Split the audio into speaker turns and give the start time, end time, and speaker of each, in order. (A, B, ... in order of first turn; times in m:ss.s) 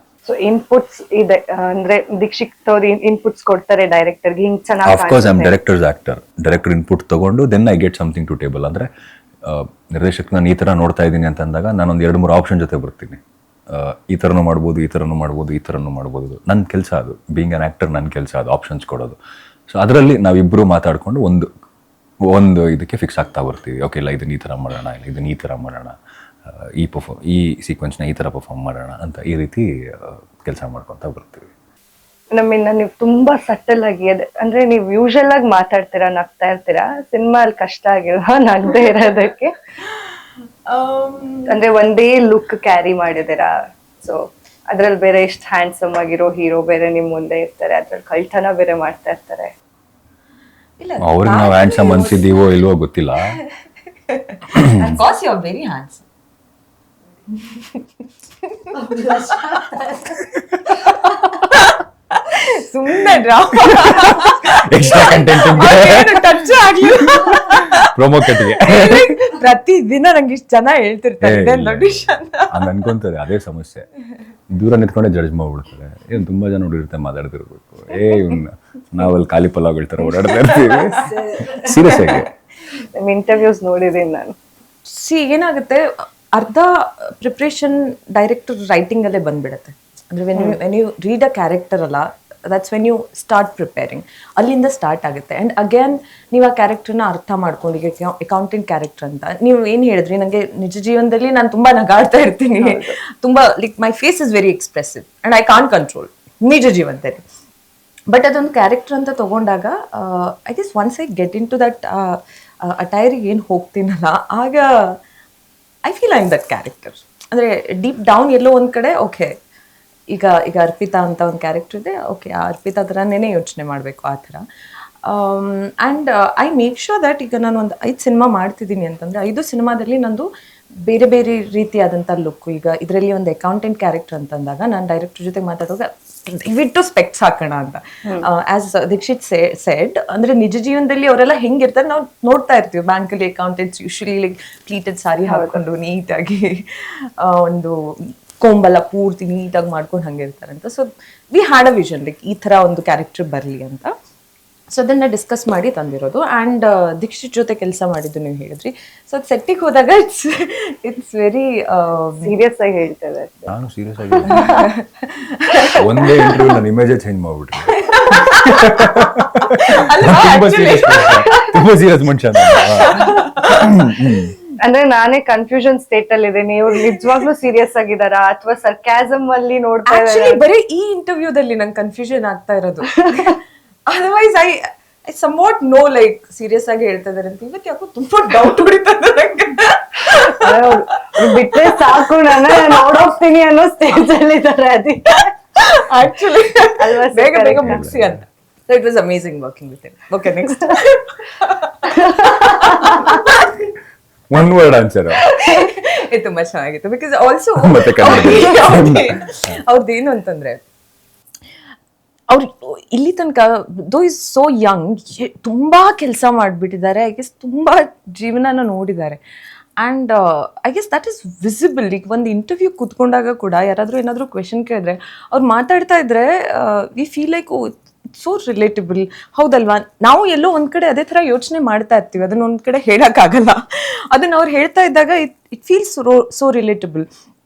0:00.3-0:05.5 A
0:04.8-0:08.9 B
0:09.4-0:13.2 B
0:13.7-0:19.2 B
0:19.7-0:21.5 B
0:22.3-0:26.0 B
0:26.5-0:31.5 B
0:32.3-0:39.5 A
0:39.8-0:40.2 C
0:40.7-0:41.6 C
0:41.5-0:49.5 A
0:50.8-0:52.4 C
0:51.0-0:53.4 B
0:54.1-0:56.0 C
0:54.6-0:54.9 B
0:57.4-0:57.8 C
0:58.7-1:00.2 A
1:00.8-1:12.7 C
1:03.6-1:09.3 B
1:11.2-1:13.9 B
1:14.5-1:22.3 B
1:20.2-1:21.1 C
1:20.9-1:22.2 A
1:23.0-1:24.4 A
1:24.9-1:47.2 C
1:42.6-1:43.0 A
1:48.1-1:55.0 C
1:55.8-1:59.3 C
2:00.1-2:04.4 C
2:05.0-2:10.3 C
2:10.8-2:33.9 C
2:25.3-2:25.6 A
2:34.7-2:42.3 C
2:42.2-2:43.5 A
2:43.5-2:44.7 B
2:44.3-2:46.5 C
2:45.8-2:54.3 B
2:47.7-2:51.3 C
2:52.4-2:53.8 C
2:54.6-3:00.4 A
2:59.9-3:11.1 C
3:03.0-3:03.4 A
3:10.3-3:15.3 A
3:15.6-3:23.7 C
3:16.7-3:17.8 A
3:17.5-3:18.2 B
3:21.8-3:23.2 A
3:24.3-3:25.2 B
3:25.3-3:30.6 C
3:25.3-3:25.6 A
3:27.6-3:29.6 B
3:32.3-3:39.2 C
3:39.8-3:53.6 C
3:54.1-3:57.1 C